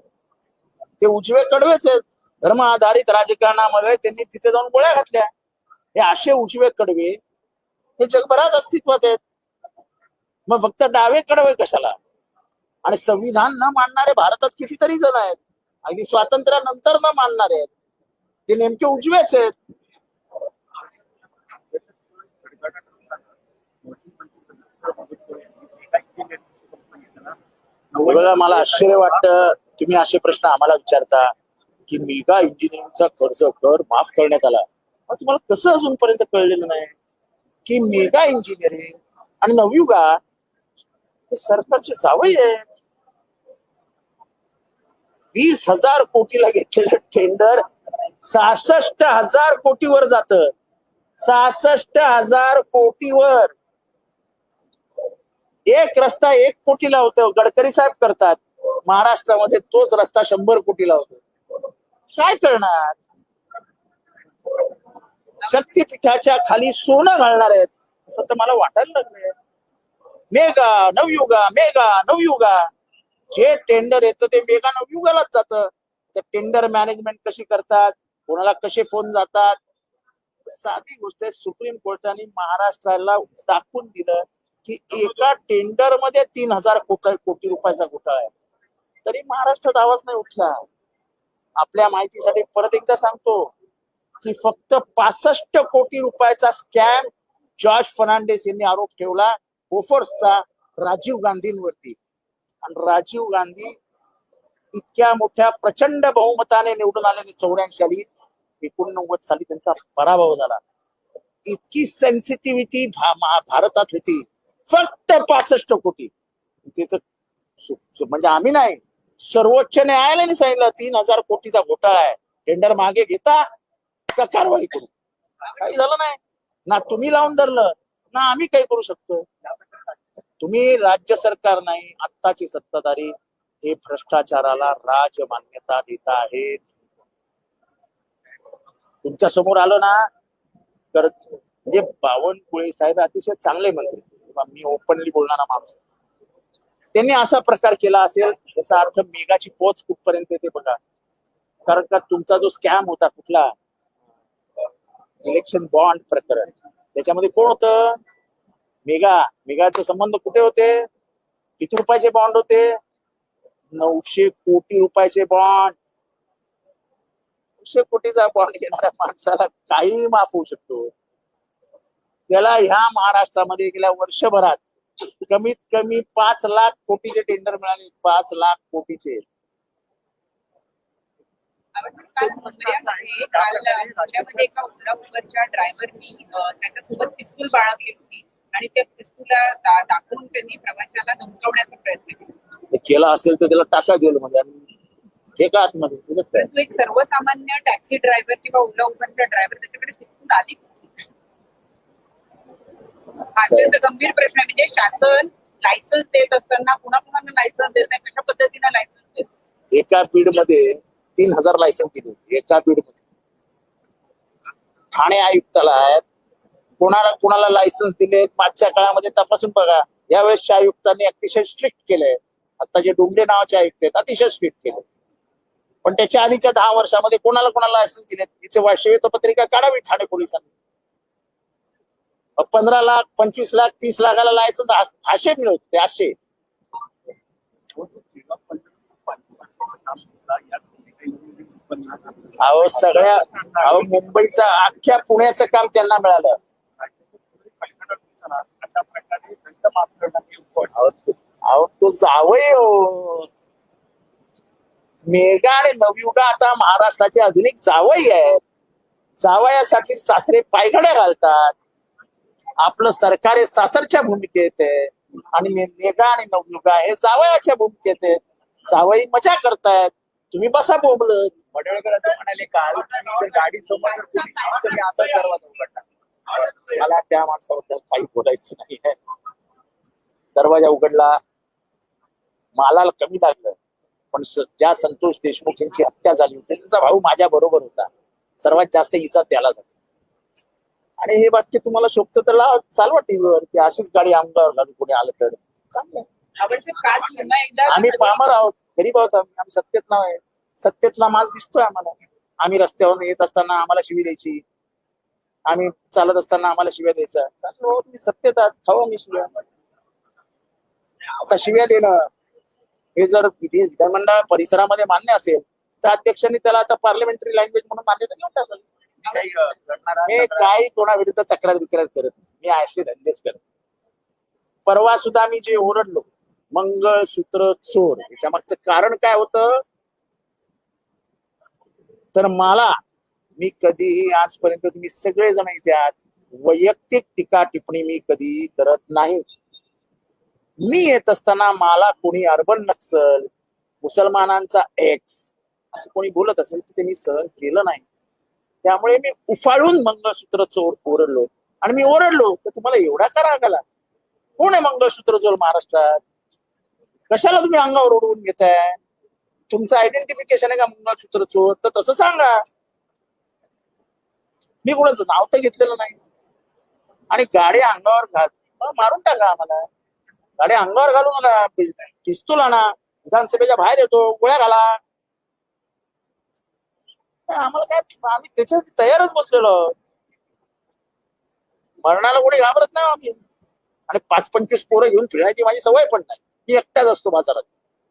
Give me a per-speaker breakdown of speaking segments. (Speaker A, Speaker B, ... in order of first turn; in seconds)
Speaker A: 1.0-5.3, 6.0-7.2, 8.0-9.2, 10.5-12.0, 12.8-17.7, 18.5-19.5, 28.0-31.3, 31.9-36.9, 37.7-40.2, 41.3-42.6, 45.3-47.6, 48.2-50.5, 51.2-53.5, 55.7-61.2, 62.1-63.0, 65.5-69.3, 70.3-72.7, 73.3-79.6, 80.5-88.3, 89.0-90.7, 91.6-93.5, 94.2-102.0, 102.6-103.8, 104.7-108.1, 108.6-110.6, 111.5-116.1, 116.7-117.0, 117.6-123.4, 124.1-124.9, 125.5-129.3, 130.4-136.7, 139.0-140.1, 140.9-145.8, 146.9-150.8, 151.7-153.5, 155.2-158.0, 158.9-160.9, 161.6-162.8, 163.8-165.8, 167.6-170.9, 172.3-179.2, 192.7-194.6, 195.4-196.5, 209.7-213.0, 214.9-216.0, 216.8-224.8, 225.8-230.5, 232.4-236.2, 242.4-246.4, 250.7-253.3, 255.1-258.4, 259.2-261.6, 262.6-279.0, 280.4-281.2, 282.6-283.6, 284.1-287.9, 288.4-289.7, 291.0-296.1, 297.7-304.4, 305.5-309.4, 311.1-312.1, 313.0-318.7, 320.1-323.4, 324.7-329.6, 332.1-332.8, 333.4-339.2, 340.6-343.3, 343.8-347.9, 348.6-353.6, 354.4-356.0, 357.1-358.8, 359.5-362.4, 364.6-366.0, 367.1-369.6, 370.4-374.8, 377.3-379.8, 381.8-383.2, 383.9-387.5
Speaker B: 21.7-23.2, 23.8-27.4, 27.9-29.1, 182.3-184.5, 237.8-243.9, 246.8-250.8, 272.6-273.7, 319.1-320.2
Speaker C: 181.8-192.3, 196.4-200.9, 203.3-209.3, 273.9-274.8, 296.4-298.2